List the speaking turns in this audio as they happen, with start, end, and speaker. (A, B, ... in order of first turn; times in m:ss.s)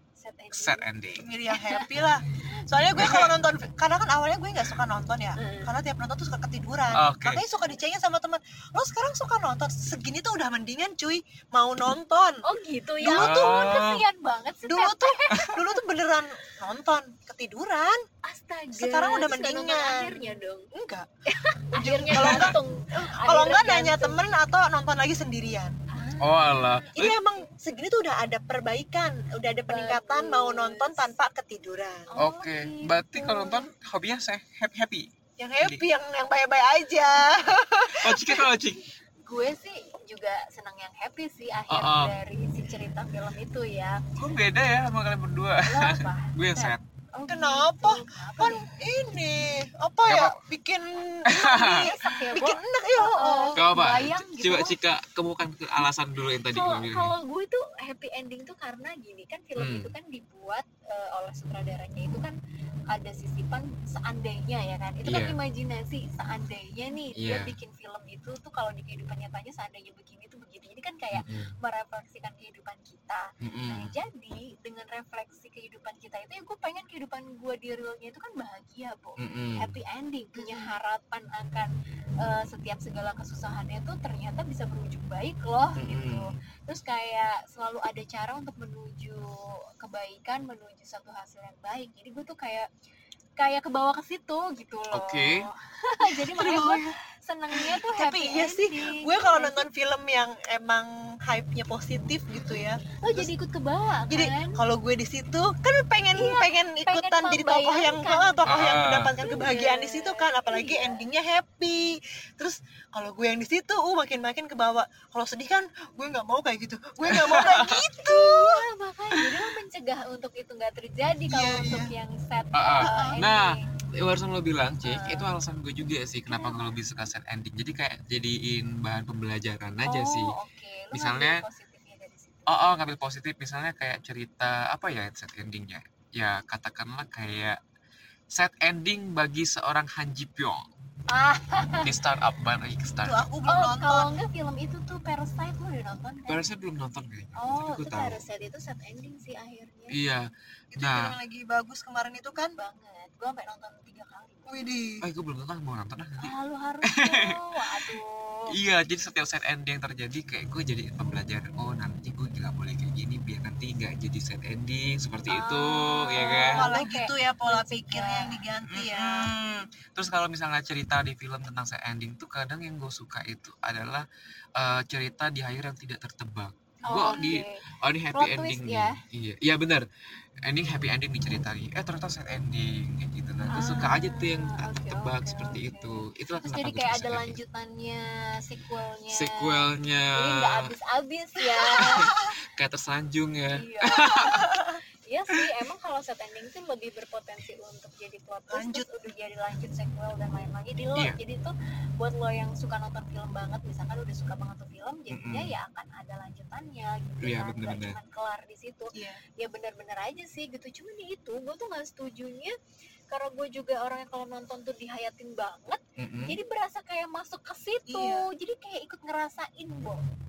0:00.2-0:00.8 A
0:00.5-0:01.3 B
0:01.2-0:12.4 C
0:01.5-0:01.9 A
0:03.0-0:03.3 B
0:05.4-0:05.8 A
0:06.9-0:07.4 B
0:12.4-0:15.8 A
0:13.0-0:13.5 C
0:13.1-0:14.0 B
0:14.7-0:18.0 C
0:18.2-0:20.7 A
0:18.7-0:21.1 C
0:21.3-0:24.3 A
0:21.7-0:25.7 C
0:22.1-0:22.5 B
0:25.9-0:27.4 A
0:26.2-0:27.2 B
0:26.9-0:32.1 C
0:29.7-0:31.1 A
0:32.1-0:33.7 A
0:32.2-0:35.8 B
0:35.4-0:38.5 C
0:37.9-0:38.8 B
0:39.2-0:44.0 A
0:41.7-0:42.1 B
0:44.2-0:46.8 B
0:45.6-0:48.7 A
0:47.3-0:53.6 C
0:50.1-0:50.4 B
0:51.3-0:52.0 B
0:51.4-0:54.8 A
0:53.6-0:57.1 B
0:56.4-1:02.3 A
0:59.6-0:59.9 B
1:02.9-1:21.7 A
1:05.0-1:05.4 B
1:07.1-1:07.5 B
1:11.1-1:11.5 B
1:13.4-1:13.9 B
1:19.2-1:19.7 B
1:20.3-1:20.7 C
1:22.2-1:32.7 A
1:25.8-1:26.3 B
1:33.4-1:39.6 A
1:34.9-1:35.4 B
1:36.1-1:36.9 C
1:37.5-1:43.3 C
1:43.0-1:44.6 A
1:44.1-1:58.6 C
1:46.1-1:51.0 A
1:48.4-1:49.2 B
1:57.1-1:57.8 B
1:58.0-2:03.9 A
2:01.3-2:01.9 C
2:02.5-2:10.3 B
2:02.8-2:03.1 C
2:04.8-2:05.3 A
2:06.3-2:06.7 A
2:09.8-2:12.6 A
2:10.9-2:11.4 B
2:12.5-2:17.6 B
2:18.3-2:20.6 B
2:21.1-2:21.9 A
2:21.8-2:23.2 B
2:23.0-2:24.1 C
2:23.4-2:26.4 A
2:26.3-2:28.2 B
2:27.3-2:30.0 A
2:29.9-2:31.2 B
2:30.7-2:32.5 C
2:32.6-2:34.6 A
2:34.5-2:35.0 C
2:35.0-2:36.3 B
2:36.2-2:38.5 A
2:36.9-2:38.0 B
2:38.5-2:46.7 B
2:45.3-2:48.4 A
2:46.5-2:49.3 C
2:48.7-2:54.0 B
2:54.6-2:59.8 B
2:56.8-2:57.2 C
2:56.8-2:59.0 A
3:00.4-3:07.4 B
3:03.5-3:12.2 A
3:09.1-3:10.6 B
3:11.4-3:14.8 B
3:13.5-3:32.5 A
3:18.5-3:18.9 C
3:25.1-3:25.6 B
3:27.2-3:28.0 B
3:28.9-3:29.2 C
3:33.1-3:40.0 A
3:36.0-3:36.4 B
3:37.9-3:38.2 C